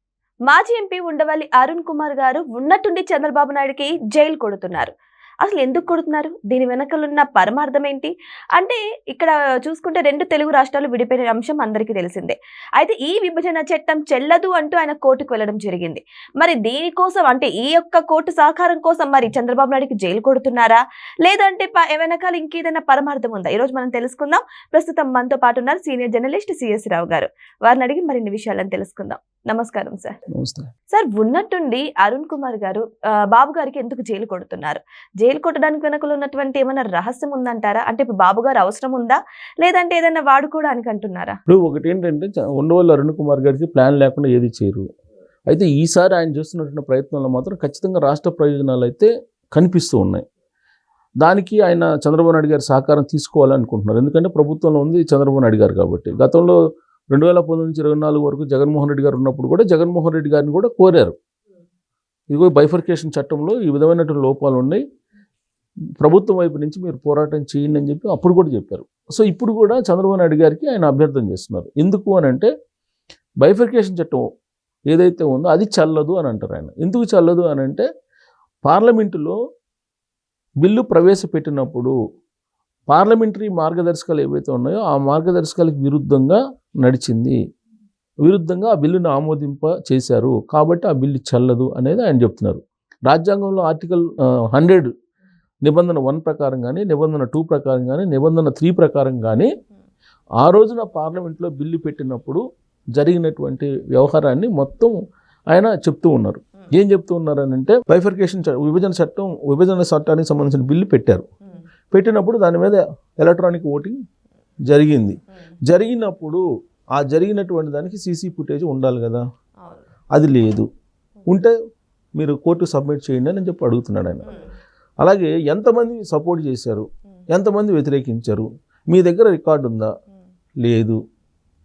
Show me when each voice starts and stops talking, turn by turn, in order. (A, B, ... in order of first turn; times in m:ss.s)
0:00.5-0:30.2 A
0:30.4-0:30.7 B
0:30.9-0:41.4 A
0:41.5-0:44.9 B
0:45.5-0:50.2 B
0:51.2-0:56.6 B
0:57.1-1:01.2 B
1:02.3-1:04.8 B
1:06.0-1:12.5 B
1:13.4-1:14.2 B
1:14.9-1:17.9 B
1:18.6-1:19.4 B
1:20.6-1:21.9 B
1:22.9-1:27.4 B
1:28.2-1:34.9 B
1:35.6-1:39.5 B
1:40.4-1:42.4 B
1:42.9-1:44.9 B
1:45.5-1:51.3 B
1:51.9-1:54.0 B
1:54.7-1:56.4 B
1:56.9-1:59.2 B
1:59.6-1:59.9 A
2:00.1-2:00.7 B
2:01.3-2:01.6 B
2:02.2-2:04.3 B
2:05.0-2:09.9 B
2:10.6-2:11.0 B